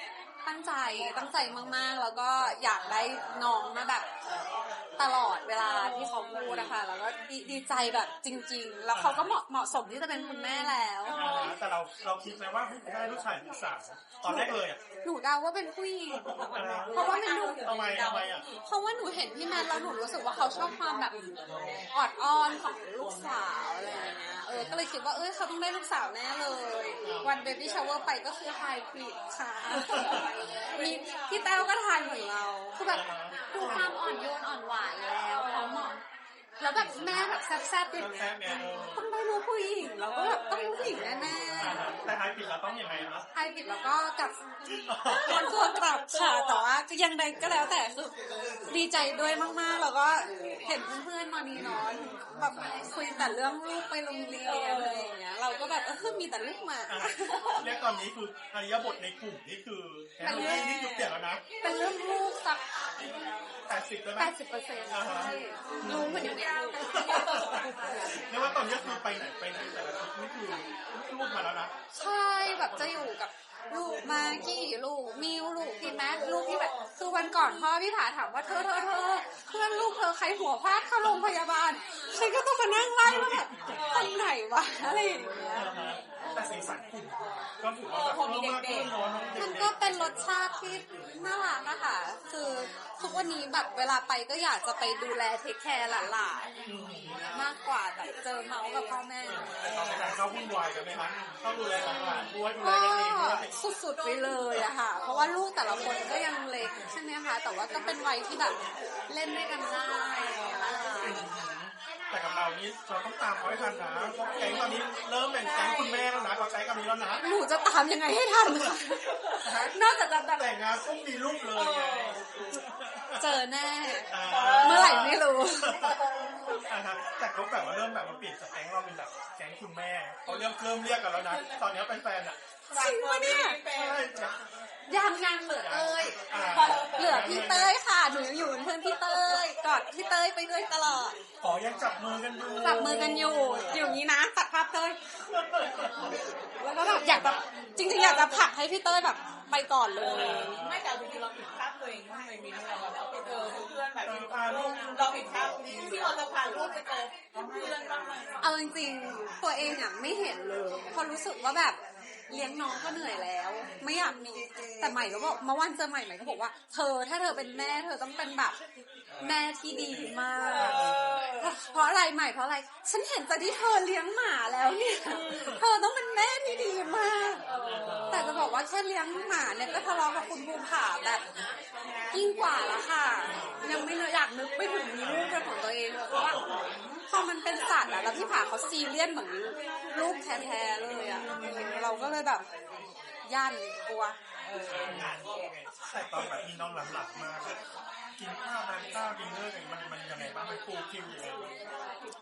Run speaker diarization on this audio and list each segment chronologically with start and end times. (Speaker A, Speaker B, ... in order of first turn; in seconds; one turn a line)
Speaker A: 0.4-4.1
Speaker A: 5.0-11.2
Speaker B: 8.9-9.3
Speaker C: 10.5-11.5
Speaker B: 11.1-14.8
Speaker A: 14.2-16.3
Speaker C: 16.2-18.6
Speaker B: 16.5-18.4
Speaker A: 16.9-17.6
Speaker A: 18.6-21.2
Speaker C: 21.5-21.8
Speaker A: 21.9-36.0
Speaker B: 27.0-27.4
Speaker B: 29.6-30.3
Speaker B: 32.9-33.9
Speaker A: 36.6-41.9
Speaker B: 36.8-37.0
Speaker B: 37.9-39.0
Speaker B: 41.6-43.3
Speaker A: 43.3-44.4
Speaker B: 44.9-45.6
Speaker A: 45.0-48.1
Speaker C: 45.1-46.6
Speaker A: 48.7-57.5
Speaker C: 54.5-55.1
Speaker B: 56.9-61.4
Speaker A: 60.2-60.7
Speaker C: 60.3-61.1
Speaker A: 61.6-62.6
Speaker B: 63.7-64.3
Speaker A: 64.2-68.2
Speaker B: 64.9-71.7
Speaker C: 65.7-67.7
Speaker A: 71.9-85.7
Speaker C: 76.1-76.9
Speaker B: 83.0-83.9
Speaker C: 83.7-84.2
Speaker B: 85.5-90.1
Speaker C: 87.9-88.9
Speaker A: 89.4-96.5
Speaker B: 96.6-97.3
Speaker A: 97.3-99.5
Speaker B: 99.3-103.5
Speaker C: 99.6-100.0
Speaker A: 102.5-111.2
Speaker B: 111.0-117.2
Speaker C: 115.4-116.1
Speaker A: 117.2-120.5
Speaker C: 119.0-119.5
Speaker B: 119.4-119.8
Speaker B: 120.3-123.4
Speaker C: 121.5-122.6
Speaker A: 123.1-125.8
Speaker B: 124.1-126.0
Speaker C: 124.1-125.1
Speaker C: 125.7-126.6
Speaker B: 126.6-132.5
Speaker C: 131.3-131.5
Speaker A: 132.7-133.6
Speaker C: 132.7-134.1
Speaker B: 133.6-134.4
Speaker A: 134.9-136.2
Speaker B: 135.5-137.8
Speaker C: 136.5-137.0
Speaker A: 136.7-141.2
Speaker B: 141.4-144.0
Speaker A: 142.6-145.0
Speaker B: 145.2-146.2
Speaker A: 146.6-150.6
Speaker B: 146.8-147.4
Speaker C: 147.8-148.5
Speaker C: 150.0-158.4
Speaker B: 150.1-150.9
Speaker B: 154.0-155.0
Speaker B: 155.6-156.1
Speaker A: 158.4-168.6
Speaker B: 169.1-171.3
Speaker A: 169.2-170.9
Speaker C: 170.5-171.5
Speaker A: 171.4-177.4
Speaker B: 175.2-175.6
Speaker C: 177.5-178.2
Speaker B: 177.6-178.4
Speaker A: 178.1-181.2
Speaker C: 181.8-182.6
Speaker A: 182.1-186.4
Speaker B: 183.2-183.7
Speaker B: 185.0-185.4
Speaker B: 186.1-186.6
Speaker A: 187.1-192.4
Speaker B: 191.1-192.0
Speaker A: 193.2-194.2
Speaker C: 194.4-195.5
Speaker B: 194.7-197.6
Speaker B: 198.2-201.5